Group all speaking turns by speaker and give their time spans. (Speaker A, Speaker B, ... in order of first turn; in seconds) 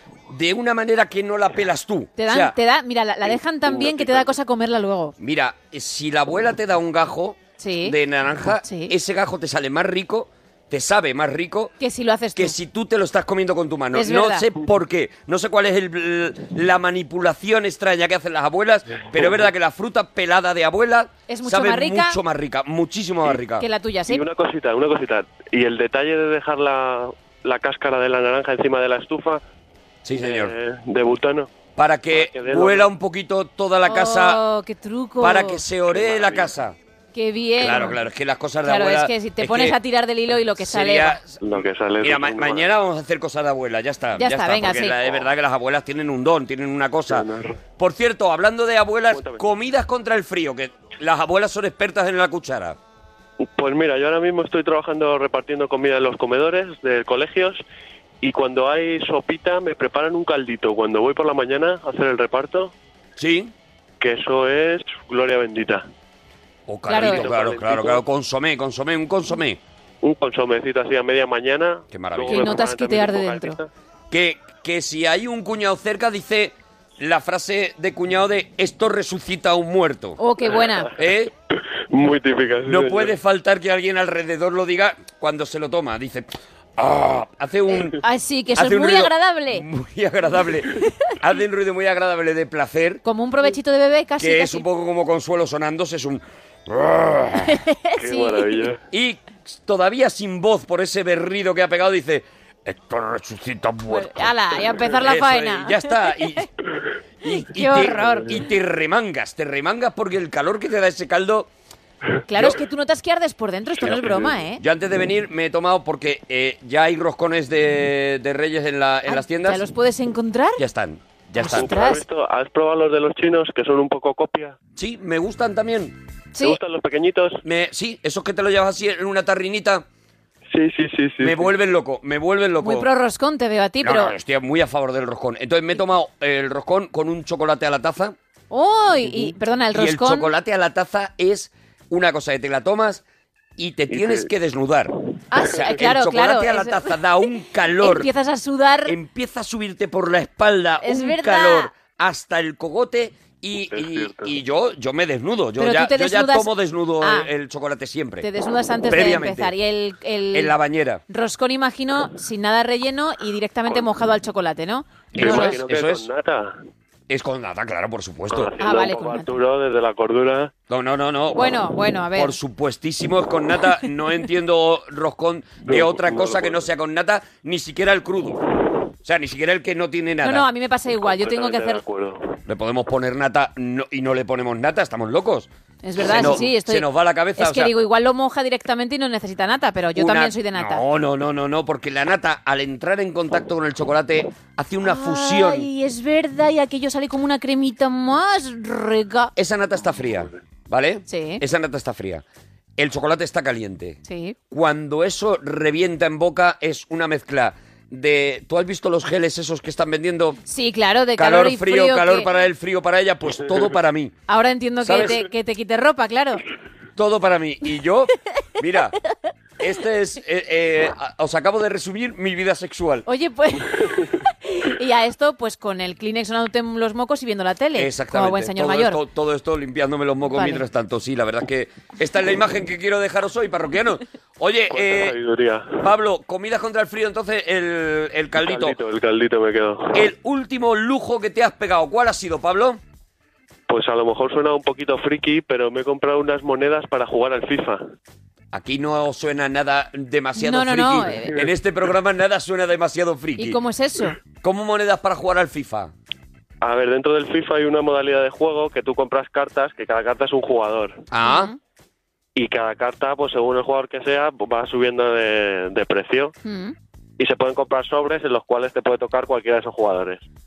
Speaker A: 0.3-2.5, 5.2-11.7, 12.3-23.6, 30.0-30.5, 31.8-34.4, 35.2-36.8, 37.6-39.8, 40.6-52.8, 63.2-63.5, 66.7-69.6, 71.9-72.5, 74.1-80.2, 81.0-81.3, 82.7-88.0, 88.5-93.0, 94.2-97.6, 98.9-106.5, 107.2-111.5, 112.3-112.6, 113.8-119.6, 120.6-121.8, 124.8-126.0, 127.4-129.8, 131.2-132.9, 133.8-138.1, 139.7-143.0, 143.6-148.1, 148.8-158.2, 158.9-159.5, 160.3-161.0, 165.1-166.1, 167.1-168.5, 170.7-171.6, 172.1-178.4, 179.0-180.5, 182.4-187.7, 189.9-195.7, 199.3-202.2, 202.8-204.0, 204.5-210.4, 211.2-214.1, 214.8-215.2, 217.0-218.9, 219.6-223.1, 227.8-235.2, 235.8-238.8, 239.9-242.8, 248.5-253.6, 254.4-255.9, 261.1-261.5
Speaker B: 2.2-5.1, 7.6-8.0, 8.6-8.9, 11.8-12.5, 13.9-14.5, 21.3-22.2, 23.6-24.2, 33.9-35.6, 37.1-38.0, 38.6-41.2, 44.1-45.2, 66.9-67.3, 72.3-73.6, 80.2-80.9, 88.0-89.6, 93.0-94.6, 97.5-98.6, 103.9-106.4, 107.3-108.4, 112.3-114.6, 119.1-120.6, 121.3-122.0, 132.6-134.1, 138.5-140.3, 145.3-147.0, 147.8-148.9, 150.8-151.7, 155.6-157.3, 158.2-160.6, 161.1-165.6, 168.6-169.3, 171.3-172.3, 180.2-181.8, 185.8-190.8, 194.8-199.3, 201.1-201.4, 204.1-204.3, 210.4-212.3, 214.3-216.4, 223.1-229.0, 230.3-230.6, 250.4-251.3, 253.4-254.2, 261.2-261.6, 266.4-266.7
Speaker C: 3.7-4.2, 24.1-29.4, 30.1-31.5, 32.1-32.9, 35.9-36.5, 41.4-42.7, 47.1-47.6, 49.1-49.4, 53.4-57.6, 58.2-62.7, 64.0-65.8, 67.0-68.0, 70.0-73.7, 81.9-83.1, 98.0-98.8, 121.5-124.5, 126.4-127.4, 130.5-131.5, 143.9-144.3, 153.7-154.3, 165.2-166.6, 168.3-170.5, 175.6-176.6, 180.9-182.3, 234.7-235.8, 238.4-240.0, 243.7-247.8, 256.6-261.0, 262.4-266.3, 267.2-270.2